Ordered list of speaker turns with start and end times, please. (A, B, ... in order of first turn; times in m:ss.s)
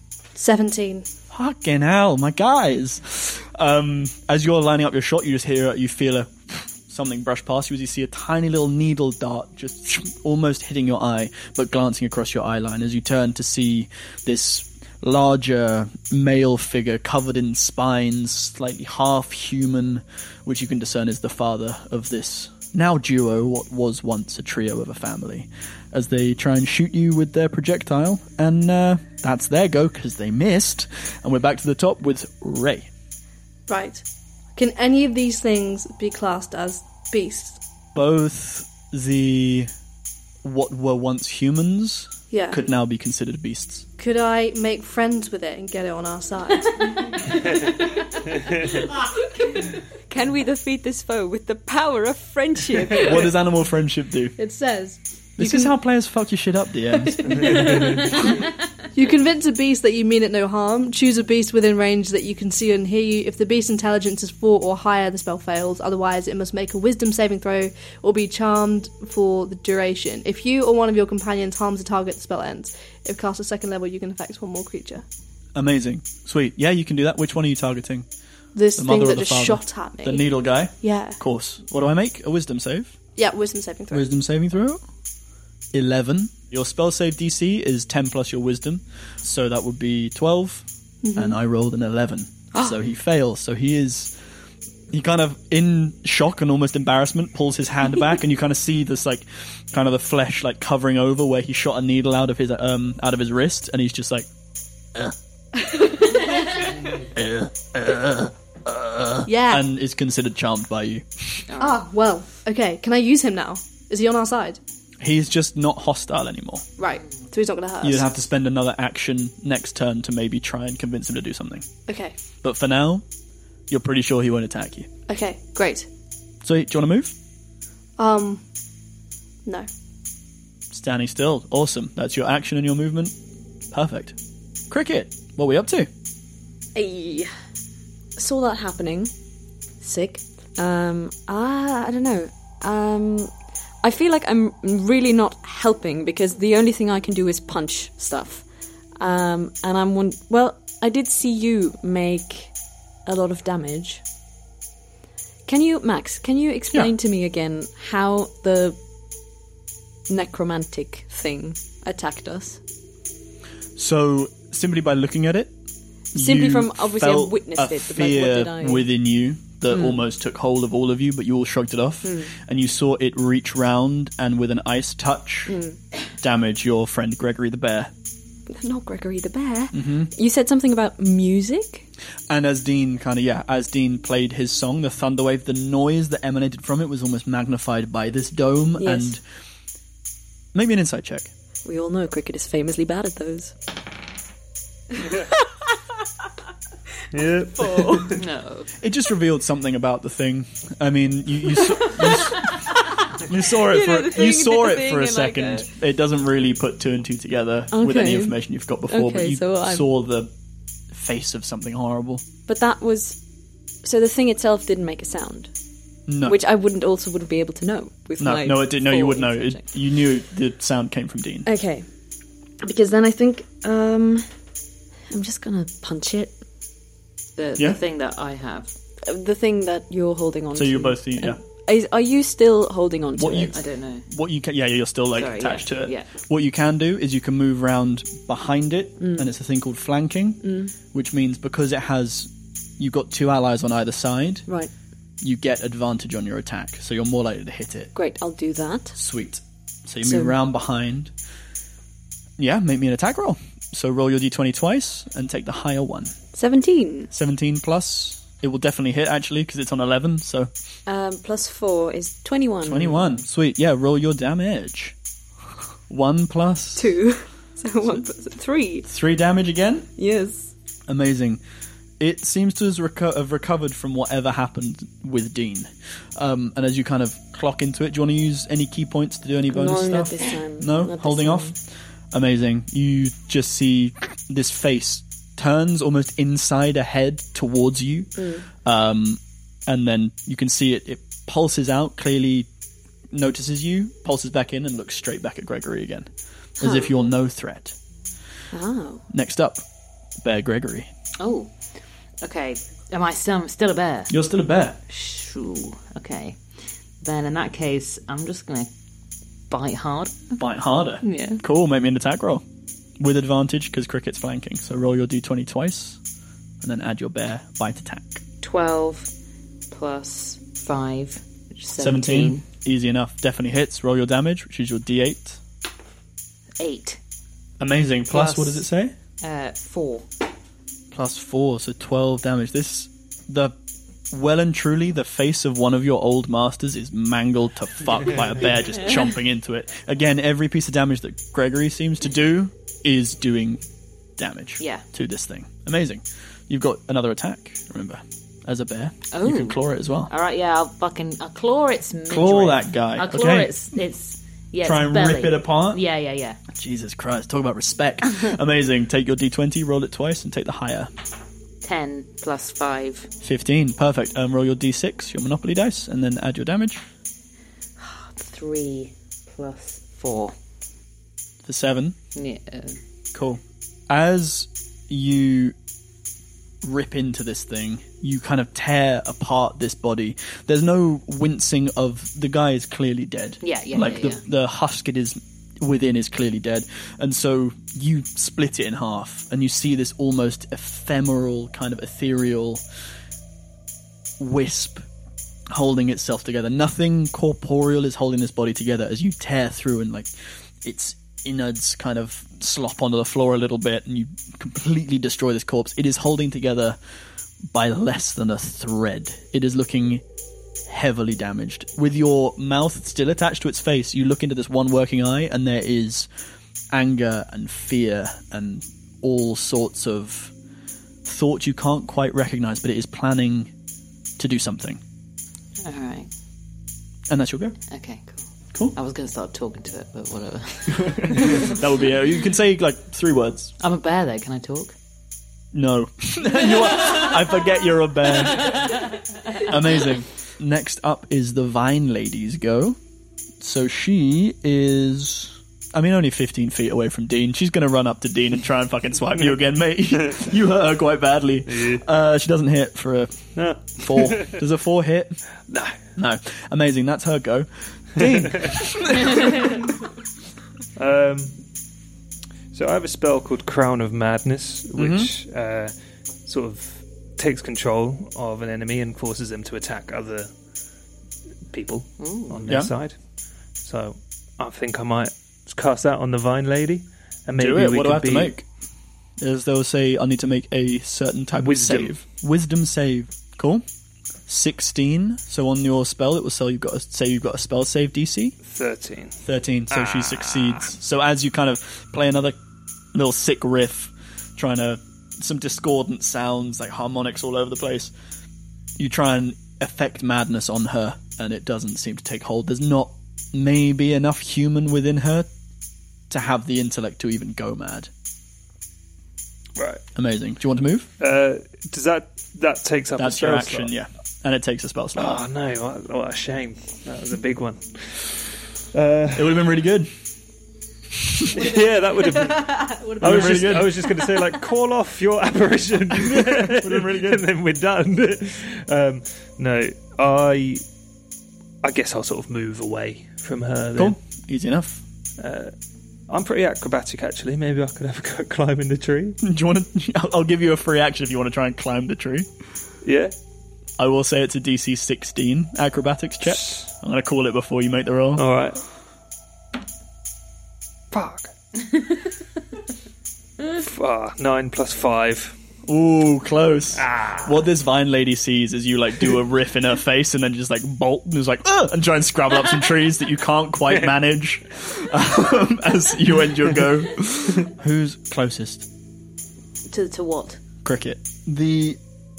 0:00.4-0:01.0 A
0:01.3-0:32.9 B
0:33.7-0:34.0 A
0:34.6-0:37.6 A
0:37.9-0:39.7 B
0:40.4-0:43.8 B
0:42.3-0:42.6 A
0:44.0-0:47.7 A
0:50.1-0:53.3 C
0:52.9-0:54.4 B
0:54.4-0:55.7 A
0:55.4-0:57.7 B
0:57.2-0:58.1 A
0:57.3-0:58.1 D
0:58.9-1:15.0 A
1:15.5-1:18.0 B
1:18.5-1:20.3 A
1:18.8-1:22.9 B
1:20.8-1:21.2 A
1:23.2-1:24.0 A
1:23.9-1:24.8 B
1:25.7-1:34.1 B
1:31.0-1:31.4 A
1:34.9-1:44.3 B
1:47.1-1:51.4 B
1:49.2-1:49.6 A
1:51.5-1:51.8 E
1:51.6-1:54.6 A
1:55.0-1:56.6 B
1:56.8-1:58.0 A
1:57.8-2:01.6 B
2:01.9-2:02.1 A
2:02.4-2:03.0 B
2:03.7-2:04.9 B
2:05.1-2:05.9 A
2:06.4-2:07.1 B
2:08.0-2:08.4 A
2:10.7-2:13.1 B
2:13.7-2:14.2 B
2:14.7-2:15.9 B
2:16.7-2:17.3 C
2:18.2-2:19.1 C
2:19.8-2:28.4 C
2:29.0-2:32.5 C
2:33.0-2:34.0 C
2:35.4-2:38.8 C
2:40.1-2:42.6 C
2:43.8-2:45.5 B
2:46.1-2:48.9 C
2:46.1-2:55.6 B
2:49.7-2:50.0 C
2:52.0-2:52.3 C
2:55.5-2:55.8 C
2:56.2-2:57.9 B
2:58.5-3:01.8 C
2:59.7-3:00.1 B
3:02.3-3:09.2 B
3:08.8-3:09.2 C
3:10.5-3:11.3 B
3:11.6-3:13.5 C
3:15.0-3:15.4 C
3:17.1-3:18.2 D
3:17.6-3:18.2 C
3:18.2-3:18.7 E
3:18.8-3:30.3 B
3:21.7-3:25.7 C
3:27.7-3:29.9 C
3:30.9-3:32.2 B
3:32.5-3:33.2 C
3:33.8-3:35.5 C
3:36.1-3:36.4 B
3:36.2-3:39.6 C
3:38.2-3:41.5 B
3:41.4-3:41.8 C
3:42.6-3:44.3 C
3:45.1-3:46.3 C
3:47.4-3:48.7 E
3:49.0-3:53.6 C
3:50.5-3:51.4 B
3:53.2-3:53.5 B
3:53.5-3:54.0 E
3:54.0-4:04.4 B
3:55.1-3:56.1 E
3:59.0-3:59.3 C
4:00.4-4:00.7 C
4:05.2-4:07.9 B
4:07.9-4:08.9 C
4:08.9-4:11.1 B
4:10.0-4:10.3 C
4:12.4-4:16.2 B
4:16.3-4:17.1 C
4:17.1-4:20.5 B
4:20.9-4:23.1 C
4:22.6-4:24.9 B
4:25.9-4:26.9 B
4:26.8-4:28.8 C
4:28.8-4:29.9 B
4:30.0-4:30.5 C
4:30.9-4:31.4 B
4:32.0-4:41.5 B
4:39.5-4:41.5 C
4:42.1-4:52.5 B
4:48.2-4:48.4 C
4:53.1-4:56.1 B
4:56.6-4:57.7 B
4:56.6-4:56.9 C
4:58.5-4:59.0 C
4:59.1-4:59.6 B
5:00.2-5:00.9 B
5:01.2-5:01.5 E
5:02.2-5:04.1 E
5:04.1-5:04.8 B
5:04.9-5:06.4 E
5:07.0-5:08.7 E
5:09.5-5:10.4 E
5:10.4-5:12.4 B
5:11.0-5:11.4 E
5:13.0-5:16.0 B
5:16.6-5:18.2 B
5:18.4-5:19.1 E
5:19.7-5:22.4 E
5:21.8-5:25.4 B
5:26.6-5:27.0 E
5:27.6-5:28.9 B
5:28.1-5:28.6 E
5:29.2-5:30.1 E
5:30.9-5:33.5 B
5:34.1-5:43.6 B
5:44.2-5:50.1 B
5:49.1-5:56.4 E
5:52.1-5:53.5 B
5:54.6-5:55.8 B
5:56.5-6:00.9 B
6:01.6-6:03.1 E
6:03.2-6:06.8 B
6:07.8-6:10.3 E
6:11.4-6:12.0 B
6:12.1-6:12.8 E
6:13.1-6:15.5 B
6:16.6-6:32.6 B
6:23.4-6:24.2 E
6:34.2-6:34.8 B
6:35.5-6:40.1 B
6:40.6-6:46.8 B
6:47.5-6:50.0 B
6:50.7-6:56.1 B
6:56.7-7:00.3 B
7:01.0-7:03.5 B
7:04.2-7:04.8 B
7:05.6-7:06.1 E
7:07.1-7:07.6 B
7:07.7-7:11.6 E
7:10.7-7:13.5 B
7:13.6-7:14.7 E
7:15.5-7:18.7 B
7:19.4-7:22.8 B
7:23.4-7:33.2 B
7:31.5-7:31.8 D
7:33.3-7:34.4 D
7:33.7-7:35.2 B
7:35.5-7:35.8 D
7:36.0-7:39.6 B
7:38.0-7:38.5 D
7:40.8-7:41.4 D
7:42.5-7:45.7 D
7:44.7-7:45.1 B
7:46.2-7:50.3 D
7:51.5-7:53.0 D
7:52.0-7:52.4 E
7:53.6-7:58.3 D
7:57.4-7:58.4 B
7:59.2-8:03.6 B
8:01.4-8:02.0 D
8:04.3-8:08.4 B
8:08.4-8:09.2 D
8:09.2-8:12.4 B
8:09.7-8:10.7 D
8:12.9-8:17.9 B
8:18.8-8:25.3 B
8:26.1-8:27.9 B
8:29.6-8:29.8 D
8:29.9-8:30.9 B
8:31.0-8:33.7 D
8:33.0-8:35.2 B
8:35.0-8:39.4 D
8:39.1-8:39.9 B
8:41.0-8:41.3 B
8:41.3-8:50.6 D
8:41.9-8:43.4 A
8:43.0-8:43.8 B
8:46.0-8:47.2 B
8:51.6-8:54.0 D
8:53.8-8:54.8 B
8:55.2-8:55.5 D
8:56.1-8:59.2 D
8:59.2-9:02.3 B
9:02.8-9:03.1 D
9:03.8-9:08.2 B
9:06.4-9:06.7 D
9:08.2-9:08.6 D
9:10.9-9:12.0 D
9:13.6-9:15.4 D
9:15.6-9:28.6 B
9:16.8-9:17.3 D
9:23.7-9:23.9 D
9:29.7-9:30.4 E
9:30.6-9:31.8 B